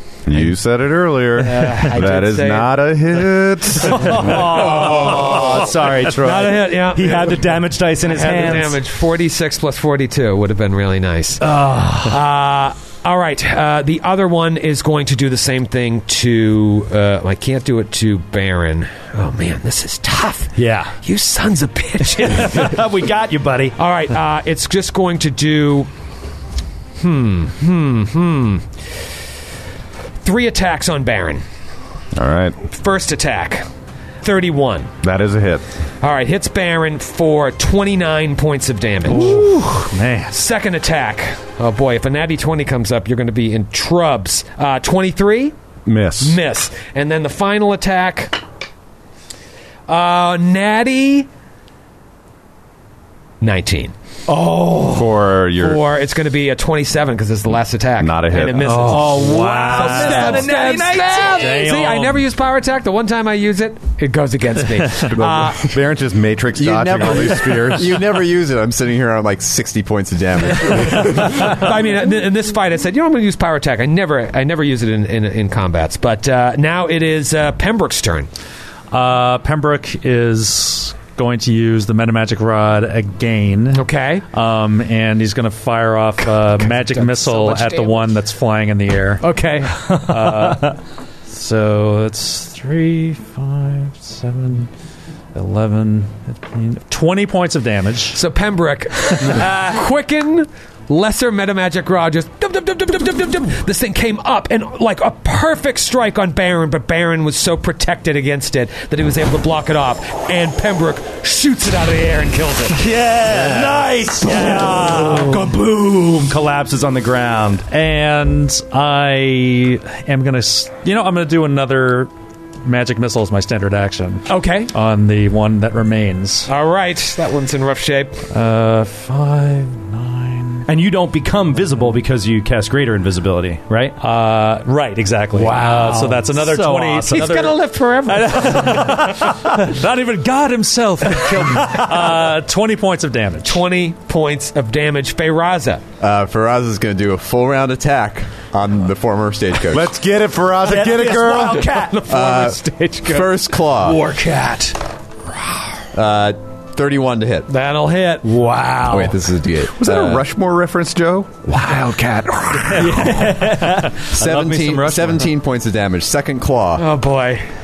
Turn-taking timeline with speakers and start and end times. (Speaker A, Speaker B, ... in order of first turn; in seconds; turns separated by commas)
Speaker A: 0.3-4.4, Speaker B: 1.4-2.7, Speaker C: 3.8-8.8, Speaker B: 4.3-7.5, Speaker B: 8.0-11.5, Speaker C: 11.4-12.2, Speaker B: 12.1-22.8, Speaker C: 20.6-20.9, Speaker C: 22.1-23.8, Speaker B: 23.8-25.9, Speaker B: 27.0-28.8, Speaker B: 30.2-31.4, Speaker A: 32.1-32.6, Speaker B: 32.7-33.7, Speaker B: 34.2-34.9, Speaker A: 35.0-35.6, Speaker B: 36.0-39.5, Speaker D: 39.1-40.4, Speaker B: 40.3-45.5, Speaker A: 45.9-46.4, Speaker B: 46.2-48.4, Speaker B: 49.9-51.3, Speaker B: 53.4-53.9, Speaker C: 54.3-54.9, Speaker A: 54.9-55.8, Speaker B: 55.6-65.6, Speaker A: 58.0-58.9, Speaker D: 58.6-62.2, Speaker C: 58.9-61.6, Speaker A: 65.1-68.0, Speaker E: 66.6-71.6, Speaker B: 71.0-78.3, Speaker D: 78.9-94.7, Speaker B: 83.7-84.2, Speaker B: 86.2-88.2, Speaker B: 89.2-90.0, Speaker C: 89.8-90.8, Speaker D: 95.3-98.2, Speaker B: 98.1-112.9, Speaker D: 99.2-99.7, Speaker D: 112.7-115.5, Speaker C: 113.2-117.7, Speaker D: 117.7-122.1, Speaker D: 122.6-126.5, Speaker B: 124.3-124.7, Speaker B: 126.5-128.3, Speaker D: 128.3-130.7, Speaker C: 130.7-134.0, Speaker D: 134.0-143.7, Speaker C: 135.3-137.4, Speaker B: 137.1-139.2, Speaker C: 141.2-142.2, Speaker B: 141.4-141.8, Speaker B: 143.4-145.8, Speaker E: 146.0-149.9, Speaker A: 149.7-151.7, Speaker C: 150.6-152.0, Speaker B: 151.1-154.1, Speaker E: 152.1-154.0, Speaker C: 154.1-154.7, Speaker E: 155.9-157.5, Speaker B: 157.5-158.3, Speaker C: 158.3-159.1, Speaker E: 158.9-160.2, Speaker A: 159.7-161.5, Speaker D: 162.6-165.3, Speaker C: 162.7-164.9, Speaker E: 164.1-166.8, Speaker B: 166.8-167.4